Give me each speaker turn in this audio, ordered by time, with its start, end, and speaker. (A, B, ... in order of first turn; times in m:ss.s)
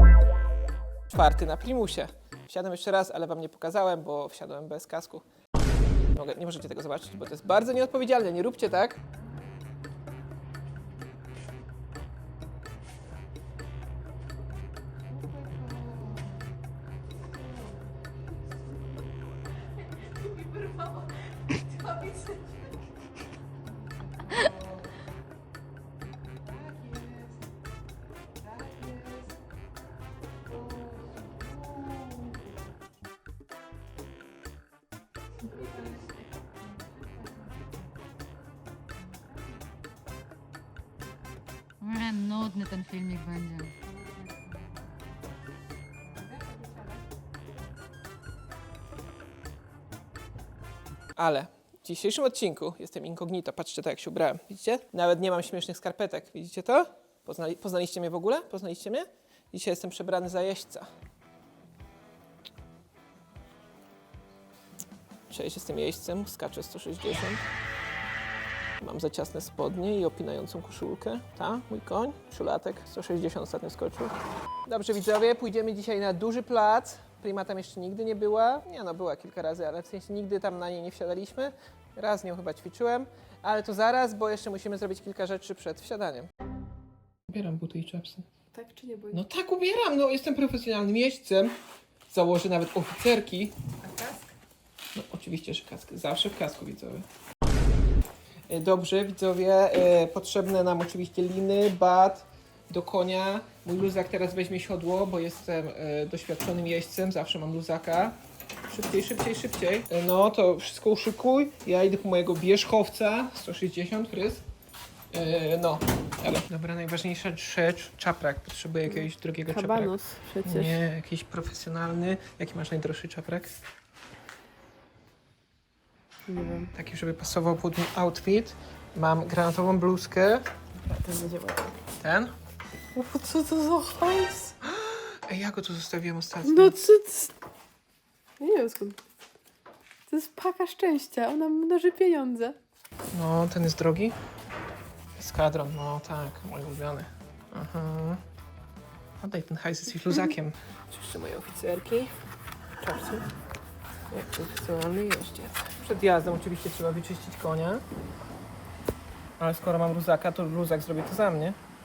0:01.1-0:05.3 A
0:06.1-0:09.0 A
0:15.3-0:16.0 A
0:20.0-0:22.7 B
0:24.2-0:24.8 A
0:26.4-0:27.4 A
0:28.4-0:29.3 A
0:30.5-0:32.4 A
0:41.8-0:44.9 C
0:51.2-1:00.9 A
1:05.3-1:07.5 A
1:08.8-1:26.3 A
1:27.3-1:28.3 A
1:28.5-1:29.2 B
1:29.1-1:31.6 A
1:32.1-1:34.2 A
1:35.0-1:37.1 A
1:38.5-1:54.4 A
1:55.1-2:03.6 A
1:58.9-2:00.8 B
2:06.3-2:06.7 B
2:06.7-2:10.5 A
2:10.8-2:11.8 B
2:12.0-2:12.3 A
2:12.9-2:14.6 B
2:14.6-2:16.8 A
2:16.4-2:17.3 B
2:18.4-2:19.0 B
2:20.1-2:22.6 B
2:23.1-2:24.2 A
2:25.2-2:28.2 A
2:29.2-2:32.2 A
2:32.8-2:33.3 A
2:34.1-2:37.8 A
2:39.4-2:41.6 A